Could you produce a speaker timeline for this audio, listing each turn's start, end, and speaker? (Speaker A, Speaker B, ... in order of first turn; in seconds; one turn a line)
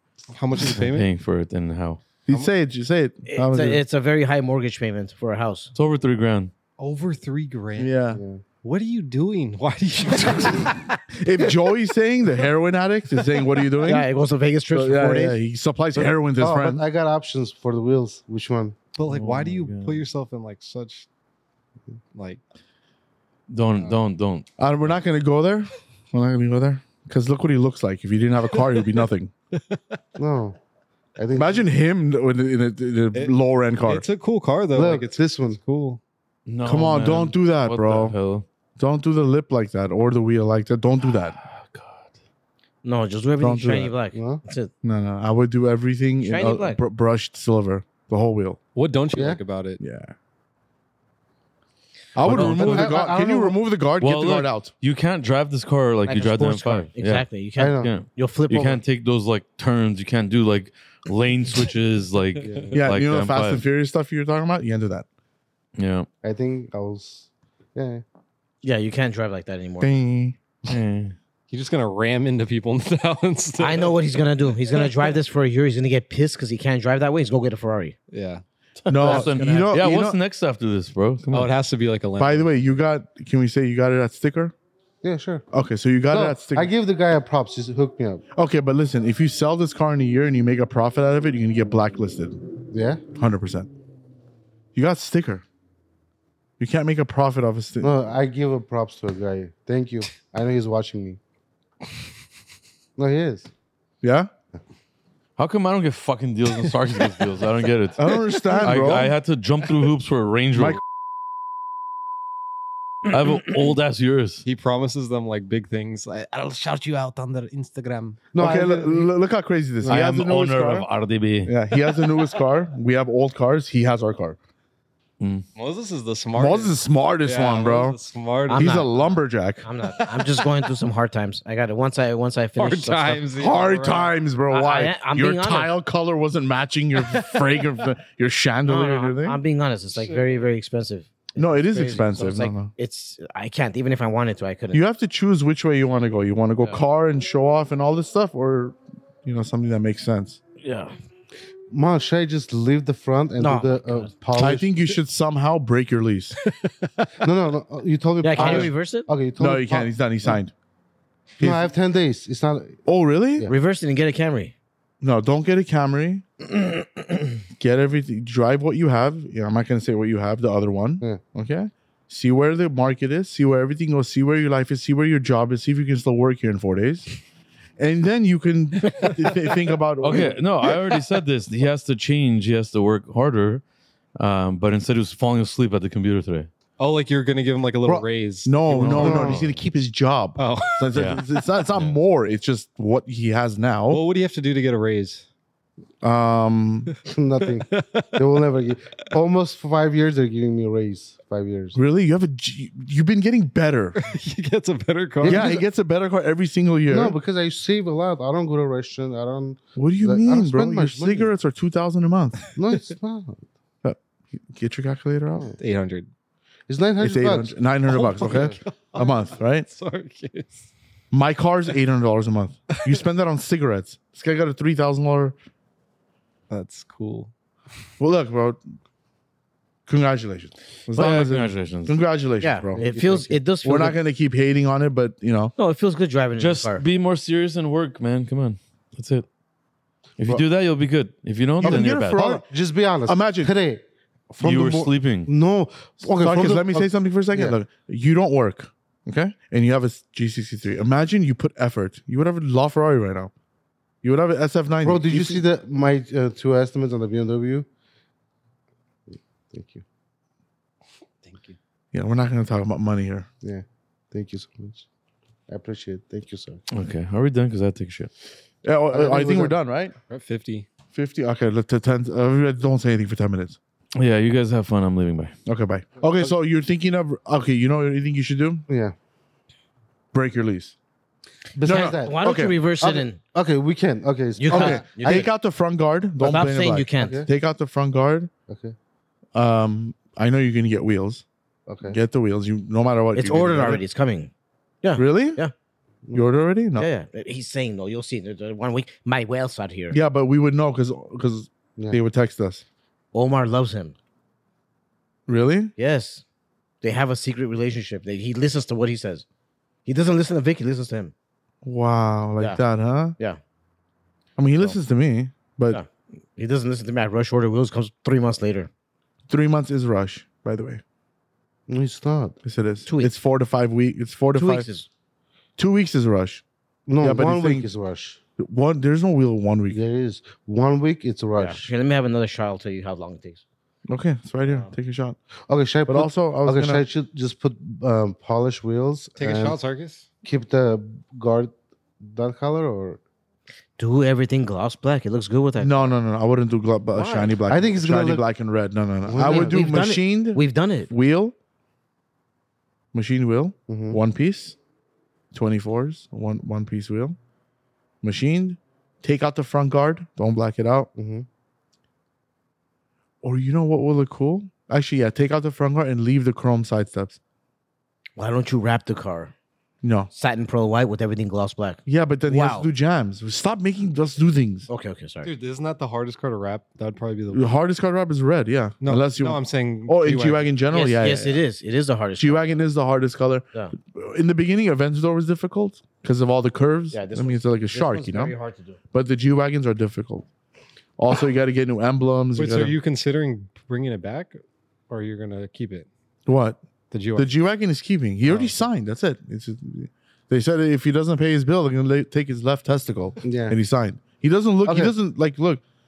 Speaker A: 0.3-1.1
Speaker B: 0.6-2.0
Speaker C: 2.3-3.8
Speaker D: 3.3-5.7
Speaker B: 5.7-6.5
Speaker A: 6.8-8.0
Speaker C: 7.8-8.2
Speaker E: 8.1-8.4
Speaker A: 8.6-10.9
Speaker C: 11.1-14.1
Speaker A: 13.2-13.5
Speaker D: 13.8-15.4
Speaker C: 14.7-16.8
Speaker E: 15.9-18.8
Speaker A: 18.9-21.1
Speaker B: 19.1-20.0
Speaker A: 22.1-22.4
Speaker B: 23.5-24.4
Speaker C: 24.6-29.3
Speaker A: 28.7-29.0
Speaker A: 29.5-30.0
Speaker E: 30.2-30.6
Speaker E: 31.1-31.7
Speaker C: 31.3-34.1
Speaker A: 33.1-36.0
Speaker E: 34.7-35.6
Speaker B: 36.5-38.5
Speaker C: 36.6-38.1
Speaker C: 38.8-41.4
Speaker B: 41.2-42.1
Speaker D: 42.8-44.7
Speaker C: 43.4-43.9
Speaker E: 44.1-44.4
Speaker C: 44.8-48.6
Speaker D: 46.2-46.8
Speaker A: 48.7-49.8
Speaker E: 49.1-49.4
Speaker C: 49.8-50.1
Speaker C: 52.1-54.7
Speaker E: 52.3-53.6
Speaker D: 52.3-52.7
Speaker B: 52.4-52.9
Speaker B: 54.0-57.3
Speaker D: 56.1-58.8
Speaker E: 57.6-57.9
Speaker B: 57.8-63.6
Speaker E: 62.4-62.7
Speaker A: 62.5-62.8
Speaker C: 62.7-65.0
Speaker B: 65.8-66.1
Speaker E: 66.2-68.0
Speaker D: 68.6-69.9
Speaker C: 69.8-70.8
Speaker B: 70.7-71.2
Speaker A: 71.5-74.0
Speaker D: 73.6-77.9
Speaker A: 74.7-75.1
Speaker A: 78.1-78.4
Speaker B: 78.8-81.5
Speaker C: 78.9-80.2
Speaker D: 79.0-79.7
Speaker A: 81.3-82.6
Speaker C: 82.2-84.5
Speaker E: 85.0-85.5
Speaker C: 85.5-86.7
Speaker E: 86.1-88.2
Speaker C: 88.3-92.4
Speaker E: 92.7-93.0
Speaker C: 93.1-93.7
Speaker C: 94.7-95.4
Speaker C: 96.6-97.9
Speaker E: 97.8-101.2
Speaker E: 103.0-103.5
Speaker C: 104.0-104.3
Speaker B: 105.4-110.8
Speaker C: 108.0-109.1
Speaker C: 110.5-110.8
Speaker B: 113.0-114.4
Speaker A: 114.4-118.7
Speaker E: 118.3-119.1
Speaker C: 118.4-120.9
Speaker B: 119.9-121.5
Speaker C: 121.4-124.4
Speaker B: 125.2-125.5
Speaker A: 125.5-129.2
Speaker C: 126.3-128.0
Speaker D: 128.5-128.9
Speaker C: 128.5-129.6
Speaker D: 129.6-133.2
Speaker A: 129.8-130.7
Speaker A: 132.6-134.1
Speaker C: 133.3-139.4
Speaker D: 134.5-135.7
Speaker A: 137.0-137.6
Speaker D: 138.7-144.8
Speaker A: 139.9-140.4
Speaker C: 141.3-142.7
Speaker C: 144.7-150.4
Speaker D: 150.6-150.9
Speaker E: 151.7-154.7
Speaker D: 153.4-154.1
Speaker C: 154.3-156.4
Speaker A: 156.4-157.3
Speaker E: 157.2-160.4
Speaker D: 158.2-159.1
Speaker C: 158.4-158.7
Speaker C: 159.4-160.5
Speaker E: 161.4-162.8
Speaker C: 161.4-161.7
Speaker C: 162.9-163.5
Speaker D: 163.4-164.5
Speaker C: 165.0-166.2
Speaker C: 167.6-177.1
Speaker C: 177.8-180.4
Speaker B: 180.0-183.6
Speaker B: 184.2-186.5
Speaker A: 186.8-189.6
Speaker C: 188.4-194.0
Speaker E: 188.8-189.4
Speaker A: 190.4-191.4
Speaker B: 190.9-191.2
Speaker B: 191.7-192.0
Speaker A: 193.9-195.2
Speaker C: 196.0-196.9
Speaker A: 196.9-198.4
Speaker E: 197.0-201.8
Speaker C: 201.8-204.0
Speaker A: 204.0-205.6
Speaker E: 205.2-205.6
Speaker C: 205.2-207.2
Speaker E: 206.9-211.3
Speaker C: 209.8-212.5
Speaker E: 212.5-213.4
Speaker C: 213.8-215.5
Speaker A: 215.6-216.1
Speaker E: 216.7-218.6
Speaker C: 217.0-219.7
Speaker A: 217.9-220.7
Speaker C: 221.1-225.3
Speaker A: 226.5-227.3
Speaker C: 228.0-228.6
Speaker C: 229.8-232.8
Speaker B: 230.9-232.0
Speaker D: 232.4-234.0
Speaker E: 232.7-233.4
Speaker C: 233.6-235.5
Speaker D: 235.6-236.8
Speaker B: 236.4-239.2
Speaker B: 240.2-242.2
Speaker C: 241.6-242.4
Speaker E: 241.6-247.6
Speaker C: 243.1-243.5
Speaker B: 244.4-245.3
Speaker C: 246.1-253.3
Speaker C: 254.0-255.4
Speaker E: 254.8-257.7
Speaker E: 259.1-259.8
Speaker A: 261.2-261.6
Speaker C: 261.9-263.3
Speaker E: 263.4-264.9
Speaker E: 265.5-266.6
Speaker B: 266.7-268.1
Speaker C: 268.6-269.9
Speaker E: 268.9-269.5
Speaker A: 270.1-270.7
Speaker C: 270.9-273.6
Speaker B: 273.9-275.3
Speaker C: 275.4-278.6
Speaker E: 278.7-278.9
Speaker C: 280.1-280.7
Speaker E: 281.5-282.2
Speaker C: 281.6-282.6
Speaker D: 281.6-283.2
Speaker E: 282.8-284.9
Speaker D: 284.4-285.3
Speaker C: 284.5-288.3
Speaker D: 286.2-287.2
Speaker E: 287.0-287.3
Speaker E: 288.5-288.8
Speaker C: 289.3-291.2
Speaker E: 291.7-292.0
Speaker C: 291.8-293.8
Speaker D: 293.1-294.3
Speaker D: 294.8-295.5
Speaker C: 294.9-295.4
Speaker C: 296.1-296.9
Speaker D: 296.8-300.0
Speaker C: 299.9-302.6
Speaker D: 303.1-303.9
Speaker C: 305.3-305.7
Speaker D: 305.8-306.2
Speaker D: 306.8-309.2
Speaker D: 309.9-311.1
Speaker C: 311.6-313.1
Speaker C: 314.4-315.8
Speaker D: 315.7-318.7
Speaker C: 319.3-320.8
Speaker E: 321.7-322.4
Speaker C: 322.4-324.7
Speaker D: 322.9-323.1
Speaker D: 324.3-324.9
Speaker C: 325.6-326.4
Speaker E: 326.9-328.2
Speaker C: 327.0-327.7
Speaker C: 328.4-329.8
Speaker E: 329.7-331.7
Speaker D: 331.4-333.4
Speaker C: 333.9-335.2
Speaker E: 335.5-339.6
Speaker C: 335.9-336.8
Speaker A: 339.2-340.1
Speaker E: 340.2-343.0
Speaker D: 343.8-345.9
Speaker C: 345.6-351.3
Speaker D: 346.9-347.3
Speaker E: 347.5-348.2
Speaker E: 349.0-349.6
Speaker D: 349.2-350.9
Speaker C: 352.9-354.6
Speaker E: 353.7-354.0
Speaker C: 355.3-357.1
Speaker C: 358.0-360.9
Speaker E: 360.9-361.2
Speaker C: 363.2-367.2
Speaker D: 368.2-369.3
Speaker C: 369.8-370.1
Speaker D: 370.1-372.7
Speaker C: 371.9-374.7
Speaker D: 374.7-375.3
Speaker A: 375.2-377.5
Speaker C: 377.3-381.4
Speaker A: 378.8-380.5
Speaker D: 380.7-382.4
Speaker C: 382.2-388.3
Speaker D: 386.9-388.8
Speaker C: 388.9-390.3
Speaker C: 391.0-392.8
Speaker A: 392.4-395.9
Speaker C: 396.2-396.6
Speaker A: 396.9-397.3
Speaker C: 397.1-405.6
Speaker E: 403.2-403.6
Speaker E: 404.6-404.9